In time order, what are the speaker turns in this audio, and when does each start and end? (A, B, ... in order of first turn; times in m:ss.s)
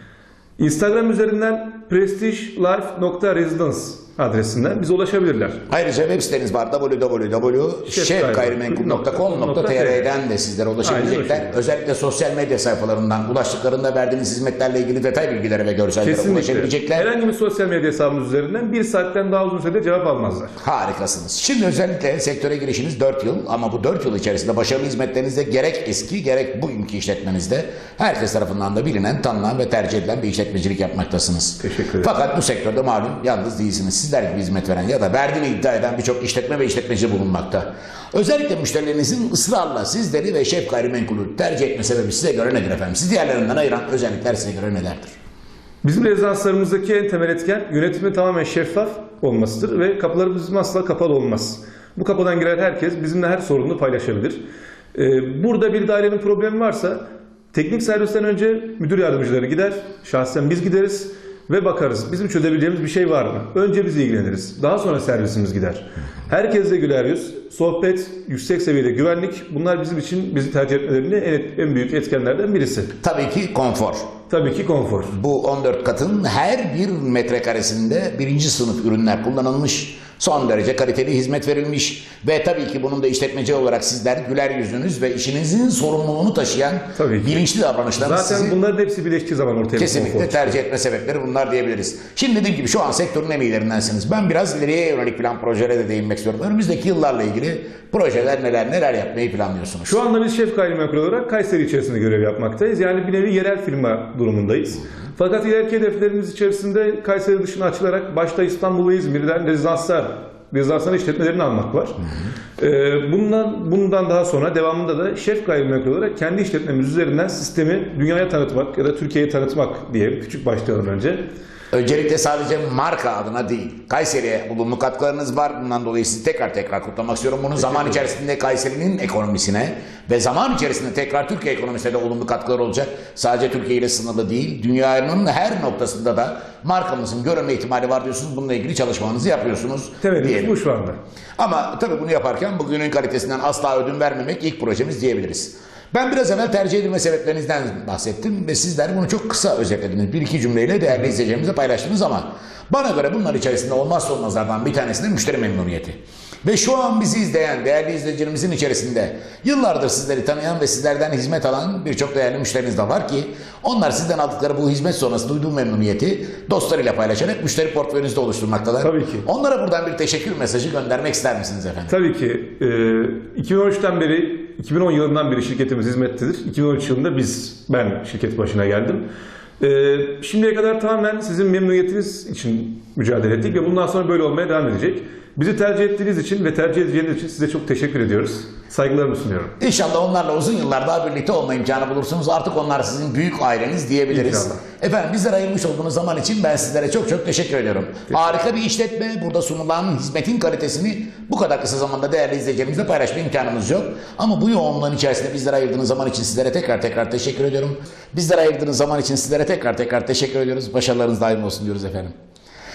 0:00.6-0:05.6 A
0:05.7-0:17.1 B
0:07.8-0:10.1 A
0:10.8-0:11.6 A
0:16.0-0:20.6 A
0:20.6-0:45.1 B
0:31.6-0:32.1 A
0:45.8-0:54.4 A
0:54.9-1:12.9 A
1:13.0-1:14.1 B
1:14.3-1:15.2 A
1:15.1-1:28.6 B
1:26.9-1:27.4 A
1:28.0-1:30.6 A
1:29.8-1:40.0 B
1:39.8-1:52.0 A
1:52.6-2:01.3 A
2:01.7-2:20.6 B
2:07.7-2:08.0 A
2:20.0-2:21.0 A
2:21.4-2:51.9 B
2:48.8-2:49.3 A
2:51.9-2:59.1 A
2:59.6-3:09.5 A
3:09.6-3:32.1 B
3:14.1-3:14.6 A